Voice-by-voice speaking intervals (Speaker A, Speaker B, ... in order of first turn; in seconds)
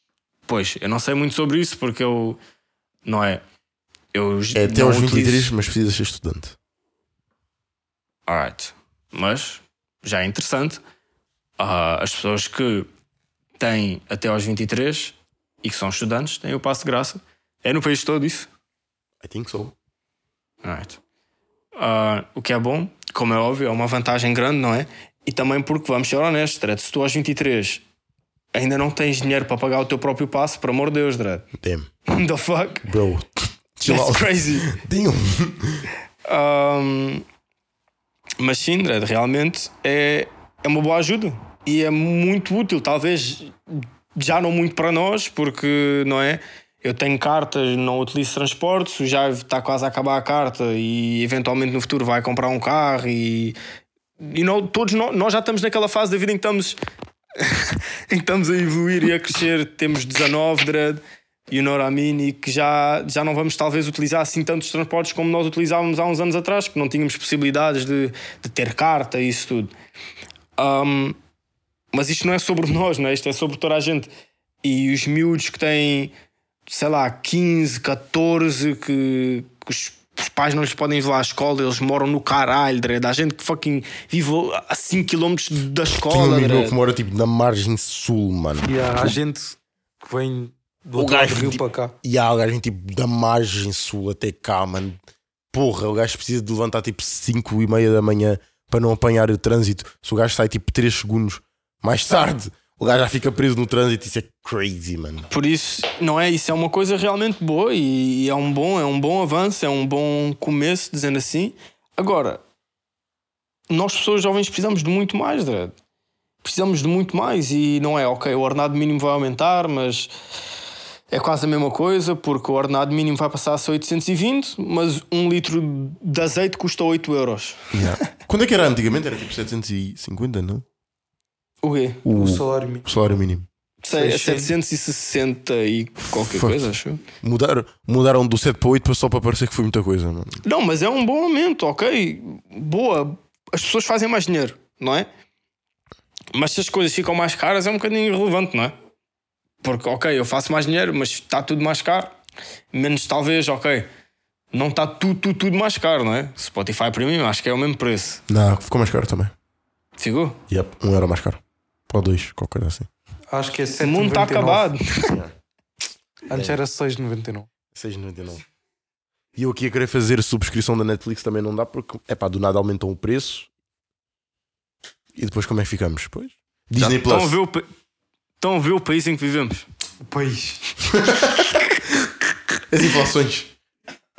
Speaker A: 0.5-2.4, 3.0-3.4, 4.1-5.5, 8.3-10.8, 11.6-12.9, 13.6-18.5, 20.6-21.0, 21.8-27.8, 28.5-31.5, 32.1-32.9, 33.8-34.7, 36.3-37.2, 38.4-53.6, 54.2-56.8, 57.4-69.7, 70.6-71.2, 71.9-74.1, 74.6-76.1, 76.7-86.8, 105.3-112.4, 113.7-115.7, 116.4-120.1, 121.1-127.9, 131.6-132.0, 133.8-137.0, 140.4-145.1, 146.3-148.7, 149.6-152.2, 152.7-153.9, 154.5-158.2, 160.0-160.4, 163.8-165.2, 176.8-177.7, 178.4-179.7
Speaker B: 4.5-6.6, 19.2-19.8, 31.5-31.9, 32.8-35.9, 85.9-89.2, 91.0-95.0, 95.5-105.3, 127.7-130.7, 132.1-133.5, 136.1-136.7, 137.2-140.4, 158.3-159.3, 160.5-162.9, 165.1-165.3, 166.3-166.6, 167.7-168.4, 169.3-173.5, 175.2-177.4, 180.9-181.5, 182.7-183.6
Speaker C: 88.7-91.9, 132.1-132.9, 133.9-134.5, 163.3-164.7, 166.3-167.5, 180.0-180.8